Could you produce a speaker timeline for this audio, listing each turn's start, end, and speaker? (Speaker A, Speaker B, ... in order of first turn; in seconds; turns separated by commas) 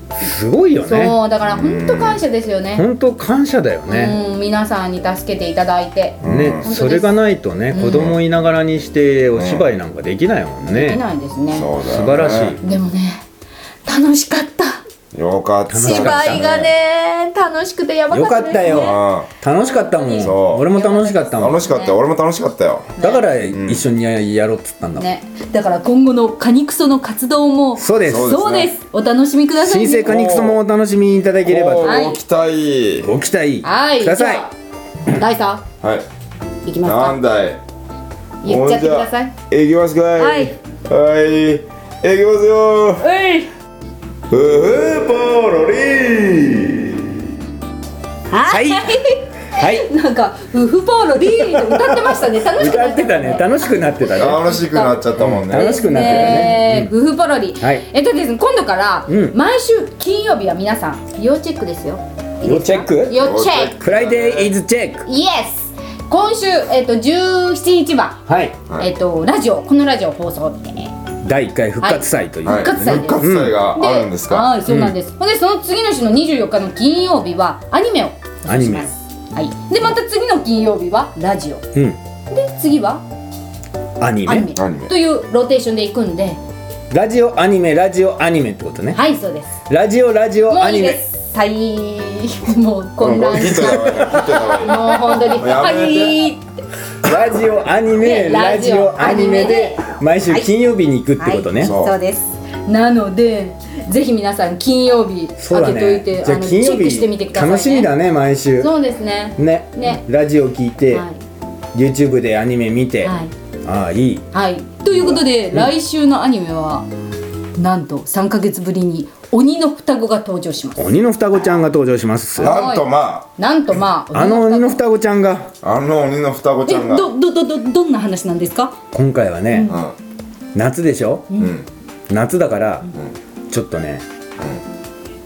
Speaker A: 0.2-1.2, Speaker B: 0.8-2.8, Speaker C: 1.4-2.2, Speaker A: 2.8-4.2, Speaker B: 3.9-7.2, Speaker C: 6.2-6.7, Speaker A: 6.2-11.0, Speaker B: 7.7-8.1, Speaker C: 7.8-8.2, Speaker C: 9.3-9.7, Speaker B: 10.7-11.7, Speaker C: 11.5-12.6, Speaker A: 11.8-12.6, Speaker B: 12.6-13.2, Speaker B: 13.8-14.8, Speaker C: 15.1-16.7, Speaker A: 15.7-16.4, Speaker B: 15.8-19.0, Speaker A: 18.1-21.6, Speaker C: 18.6-19.3, Speaker B: 19.6-22.0, Speaker C: 20.2-20.7, Speaker C: 21.4-23.9, Speaker B: 23.0-23.3, Speaker A: 23.0-25.1, Speaker B: 24.9-30.1, Speaker A: 27.8-28.5, Speaker C: 28.0-28.7, Speaker A: 29.6-31.9, Speaker C: 30.0-30.6, Speaker C: 31.4-33.1, Speaker B: 31.8-32.2, Speaker A: 33.0-34.5, Speaker B: 33.6-34.5, Speaker B: 35.1-35.6, Speaker B: 36.6-37.2, Speaker C: 36.8-37.6, Speaker B: 38.4-39.3, Speaker C: 38.4-43.0, Speaker B: 40.2-40.5, Speaker B: 43.0-43.5, Speaker C: 44.3-47.0, Speaker B: 48.3-63.7, Speaker A: 48.4-49.9, Speaker A: 51.2-54.4, Speaker C: 54.1-56.5, Speaker A: 55.2-56.9, Speaker A: 57.6-57.8, Speaker A: 59.1-59.3, Speaker A: 62.4-63.2, Speaker C: 63.1-64.5, Speaker A: 63.8-65.0, Speaker B: 65.0-68.2, Speaker A: 68.3-68.6, Speaker B: 68.8-70.9, Speaker A: 71.2-73.5, Speaker B: 71.8-73.2, Speaker C: 72.4-74.6, Speaker B: 73.7-81.7, Speaker A: 74.6-74.9, Speaker A: 78.5-78.9, Speaker B: 82.3-83.0, Speaker A: 84.0-84.5, Speaker B: 84.2-86.4, Speaker C: 84.5-84.9, Speaker A: 86.9-89.0, Speaker B: 88.9-89.6, Speaker A: 89.7-91.0, Speaker B: 90.5-96.6, Speaker C: 93.0-96.2, Speaker A: 93.3-95.3, Speaker A: 97.0-101.7, Speaker B: 97.9-100.5, Speaker B: 101.2-107.9, Speaker C: 101.6-101.9, Speaker A: 105.4-108.7, Speaker B: 108.6-110.0, Speaker A: 109.4-111.0, Speaker B: 110.9-111.2, Speaker A: 111.7-114.2, Speaker B: 113.0-113.3, Speaker B: 114.3-116.9, Speaker A: 115.0-115.7, Speaker B: 117.6-120.9, Speaker A: 120.8-122.6, Speaker C: 122.4-123.3, Speaker B: 122.4-124.8, Speaker A: 124.1-125.5, Speaker C: 125.6-127.1, Speaker B: 126.7-128.7, Speaker A: 128.9-129.7, Speaker B: 129.5-129.8, Speaker C: 129.6-129.9, Speaker A: 130.5-131.4, Speaker C: 131.3-131.7, Speaker A: 132.1-132.9, Speaker A: 133.5-134.0